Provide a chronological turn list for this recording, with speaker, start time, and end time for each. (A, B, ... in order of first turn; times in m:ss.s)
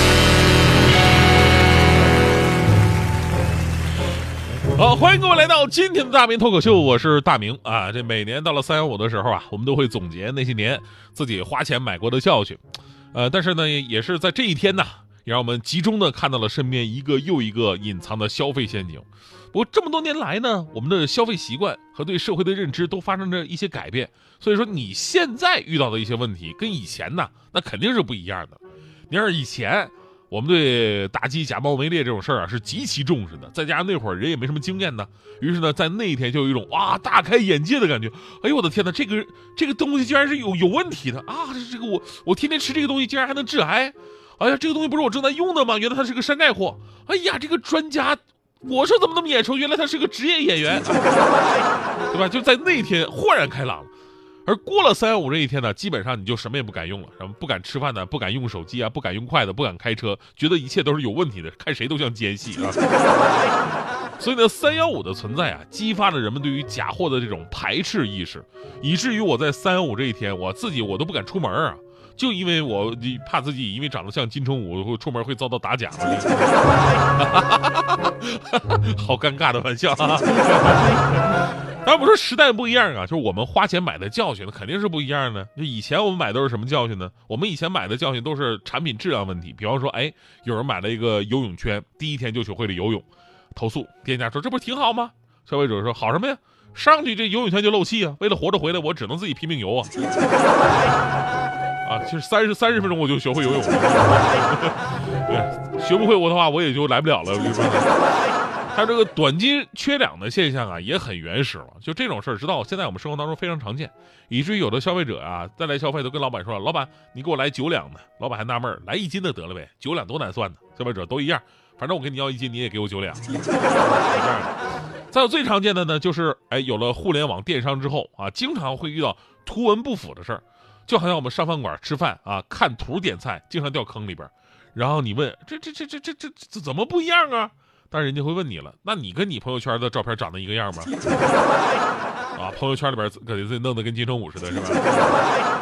0:04.7-0:12.6 A
0:13.1-0:51.2 A
0:52.1-0:53.9 A
0:54.4-1:02.8 A
1:04.2-1:39.9 A
1:41.8-1:47.9 A
1:48.7-2:04.6 A
2:05.1-2:20.9 A
2:22.3-2:25.2 A